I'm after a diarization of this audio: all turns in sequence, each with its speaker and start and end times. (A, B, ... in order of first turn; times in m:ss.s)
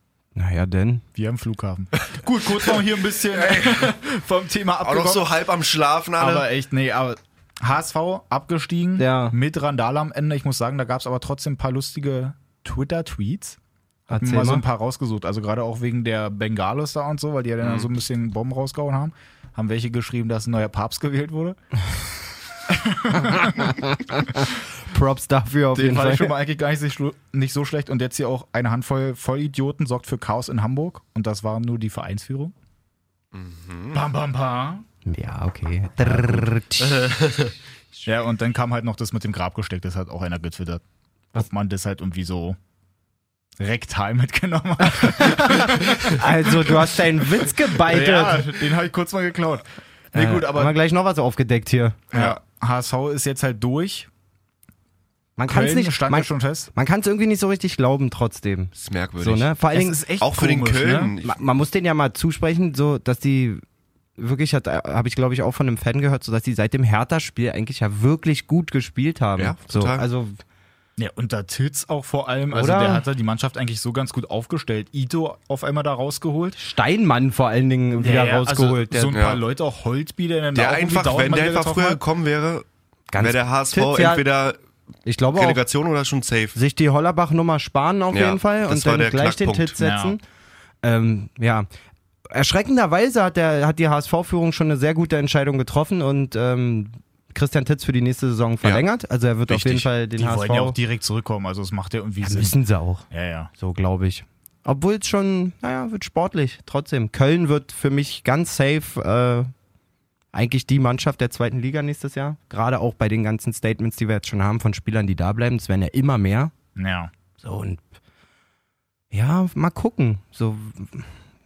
0:00.3-0:01.0 A
0:01.1-0:05.2 B
0:03.4-0:03.9 C
0:04.8-0:06.5 C
0:06.2-0:13.6 B
0:09.0-0:09.4 A
0:14.1-0:14.6 A
0:14.1-0:21.6 B
0:17.6-0:17.9 C
0:22.7-0:23.7 B
0:23.1-0:26.3 A
0:25.7-0:32.5 B
0:33.3-0:34.0 C
0:33.9-0:34.8 B
0:35.0-0:37.2 A
0:36.1-0:36.4 B
0:36.8-0:37.5 C
0:38.0-0:40.8 B
0:41.3-0:42.6 B
0:43.6-0:50.8 B
0:45.0-0:48.4 A
0:50.1-0:52.0 A
0:52.1-0:54.1 B
0:55.4-1:00.0 A
0:55.4-0:56.7 B
0:58.8-0:59.5 C
0:59.7-1:01.1 B
1:00.2-1:01.4 C
1:01.2-1:03.6 A
1:04.2-1:10.4 A
1:09.4-1:10.0 C
1:11.0-1:16.6 B
1:12.5-1:13.0 A
1:16.6-1:19.2 A
1:18.0-1:22.0 B
1:19.1-1:19.4 C
1:20.5-1:22.6 C
1:23.1-1:24.2 A
1:23.2-1:24.6 C
1:25.0-1:25.6 A
1:25.3-1:26.6 C
1:26.5-1:30.2 A
1:28.1-1:29.8 C
1:29.8-1:30.2 B
1:30.8-1:31.7 A
1:32.3-1:40.8 A
1:39.5-1:39.8 C
1:40.1-1:42.6 B
1:42.2-1:43.1 A
1:43.1-1:43.5 B
1:43.6-1:49.5 A
1:50.3-1:56.5 A
1:56.8-1:57.1 B
1:57.4-1:57.8 A
1:59.1-2:01.1 A